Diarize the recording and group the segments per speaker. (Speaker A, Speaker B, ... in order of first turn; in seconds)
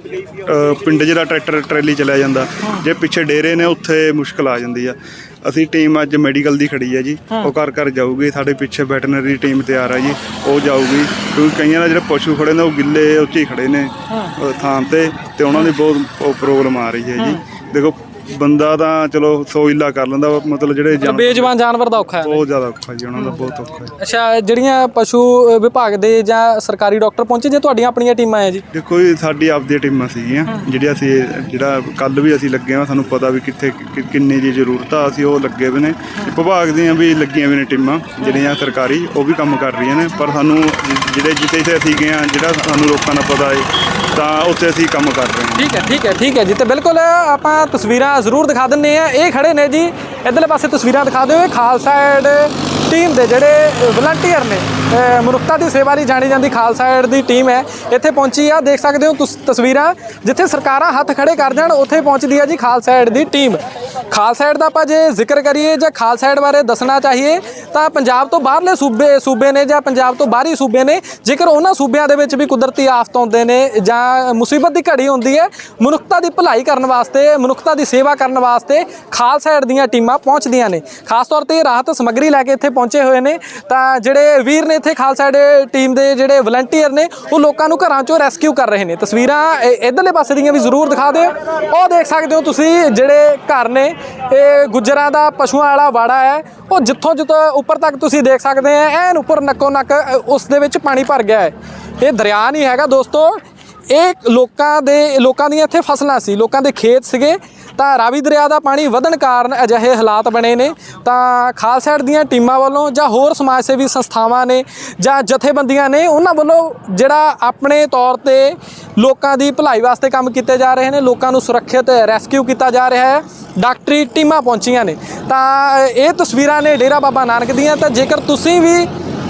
Speaker A: 0.5-21.5, 22.2-23.9, 28.7-45.6
Speaker B: 21.0-22.4, 24.0-28.6, 45.6-128.9